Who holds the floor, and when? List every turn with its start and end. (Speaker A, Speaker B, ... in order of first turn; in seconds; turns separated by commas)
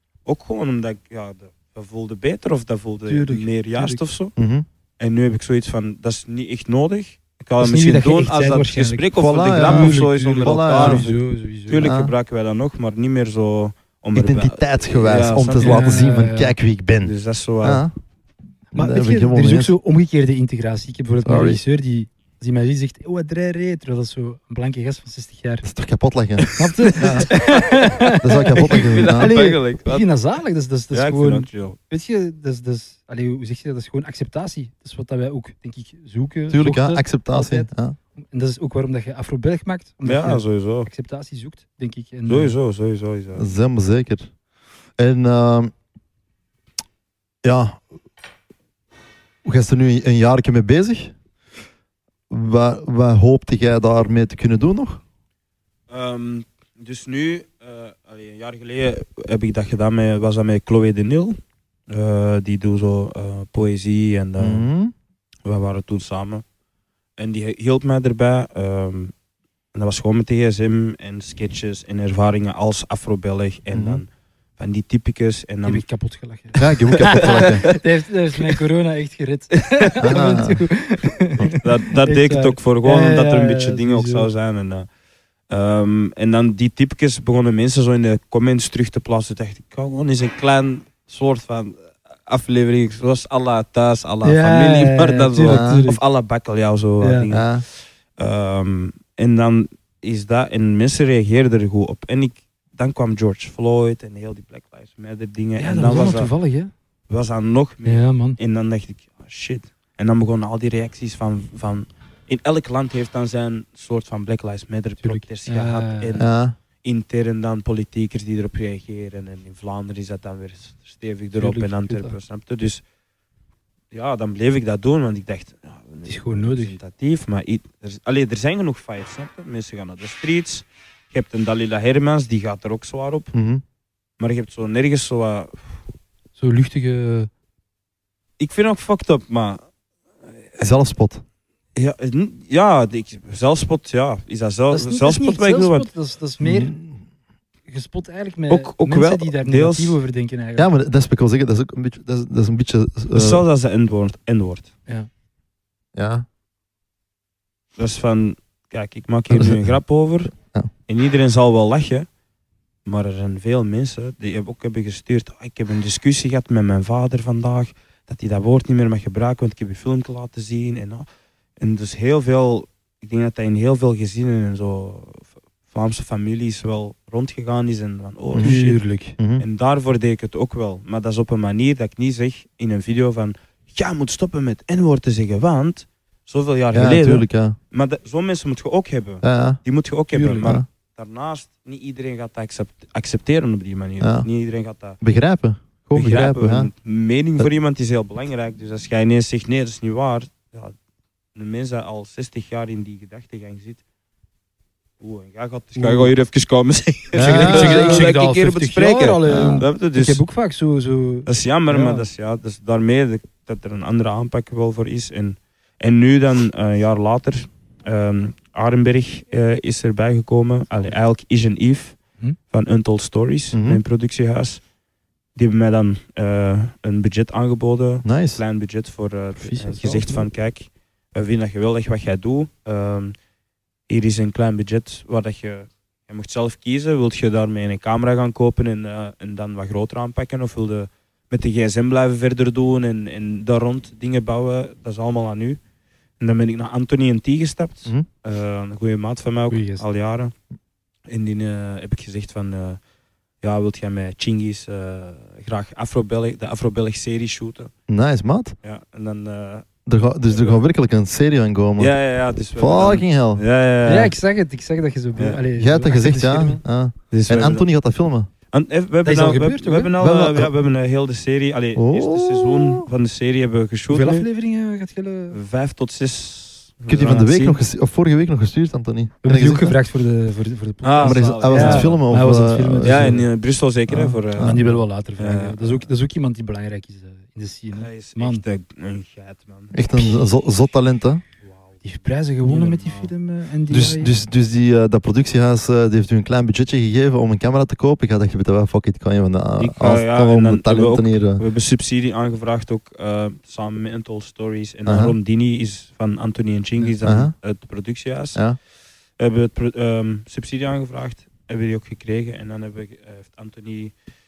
Speaker A: 0.2-4.3, Speaker B: 3.1-4.0, Speaker C: 4.4-4.7, Speaker A: 5.0-15.9, Speaker B: 7.6-11.9, Speaker C: 9.2-11.0, Speaker C: 11.8-12.1, Speaker C: 14.1-17.1, Speaker B: 15.6-16.5, Speaker A: 17.0-17.8, Speaker C: 17.6-17.9, Speaker C: 18.7-19.7, Speaker B: 18.7-25.6, Speaker C: 21.2-21.6, Speaker C: 25.6-27.3, Speaker A: 26.4-30.1, Speaker B: 26.6-42.5, Speaker C: 28.2-29.4, Speaker A: 30.9-31.8, Speaker C: 36.5-38.0, Speaker A: 40.0-40.9, Speaker A: 42.3-43.5, Speaker C: 43.4-44.3, Speaker C: 45.0-45.7, Speaker C: 47.4-47.8, Speaker C: 49.4-51.1, Speaker C: 52.3-55.0, Speaker A: 55.9-61.4, Speaker A: 61.9-64.7, Speaker C: 64.4-64.9, Speaker A: 65.4-66.4, Speaker A: 67.2-69.1, Speaker A: 69.7-75.8, Speaker C: 73.7-74.0, Speaker B: 75.7-84.3, Speaker C: 76.5-77.7, Speaker A: 77.0-77.8, Speaker A: 79.6-80.1, Speaker C: 80.0-80.7, Speaker A: 81.5-84.9, Speaker A: 85.5-97.6, Speaker B: 94.2-96.0, Speaker C: 95.5-95.8, Speaker B: 97.0-97.3, Speaker C: 97.3-97.6, Speaker A: 98.2-106.3, Speaker B: 105.6-106.7, Speaker A: 107.1-116.3, Speaker B: 107.8-108.4, Speaker B: 115.0-116.2, Speaker C: 116.2-116.5, Speaker A: 116.8-122.8, Speaker B: 121.3-122.2, Speaker A: 123.9-133.3, Speaker B: 126.0-126.8, Speaker C: 133.3-133.6, Speaker A: 134.2-135.7, Speaker B: 136.4-137.3, Speaker A: 138.4-139.6, Speaker C: 140.6-141.2, Speaker A: 141.8-145.9, Speaker B: 144.7-146.7, Speaker C: 146.4-147.0, Speaker B: 147.7-150.7, Speaker A: 148.5-150.0, Speaker C: 150.6-153.4, Speaker A: 153.1-154.7, Speaker C: 155.9-156.2, Speaker A: 157.8-160.3, Speaker C: 159.3-159.6, Speaker C: 160.3-160.7, Speaker A: 160.9-162.1, Speaker A: 162.8-171.1, Speaker A: 171.6-178.8, Speaker C: 178.3-178.6, Speaker B: 178.4-179.2, Speaker C: 179.2-179.4, Speaker A: 179.4-195.0, Speaker C: 186.7-187.6, Speaker C: 189.2-189.6, Speaker B: 190.1-190.6, Speaker C: 190.4-190.7, Speaker C: 194.0-194.3, Speaker C: 195.0-196.7, Speaker A: 195.9-200.7, Speaker A: 201.3-203.8, Speaker A: 205.0-210.2, Speaker B: 205.8-206.1, Speaker B: 207.1-212.1, Speaker C: 207.2-208.1, Speaker C: 209.2-209.6, Speaker A: 211.2-222.0, Speaker A: 222.5-224.6, Speaker C: 223.5-223.8, Speaker A: 225.3-233.1, Speaker C: 228.0-228.4, Speaker B: 229.3-230.3, Speaker A: 233.9-245.6, Speaker A: 246.2-250.3, Speaker B: 249.5-249.8, Speaker A: 251.1-252.8, Speaker A: 253.4-257.7, Speaker C: 257.9-258.6, Speaker A: 258.6-259.7, Speaker C: 259.9-261.9, Speaker A: 260.3-260.6, Speaker A: 261.8-264.1, Speaker C: 262.6-263.4, Speaker B: 263.9-266.6, Speaker C: 265.6-268.3, Speaker A: 267.1-267.6, Speaker A: 268.5-274.3, Speaker B: 269.0-269.9, Speaker C: 270.0-270.5, Speaker C: 271.8-272.9, Speaker B: 273.9-275.4, Speaker A: 275.3-277.6, Speaker C: 276.9-279.8, Speaker B: 279.2-283.2, Speaker A: 280.8-282.0, Speaker C: 281.0-283.2, Speaker A: 282.8-285.9, Speaker C: 283.9-284.6, Speaker B: 284.4-288.4, Speaker A: 287.8-289.8, Speaker C: 289.7-291.2, Speaker A: 291.4-291.8, Speaker B: 291.8-294.1, Speaker A: 292.4-293.1, Speaker C: 293.7-301.4, Speaker A: 299.6-308.4, Speaker C: 304.9-305.1, Speaker C: 307.0-307.3, Speaker A: 309.2-313.9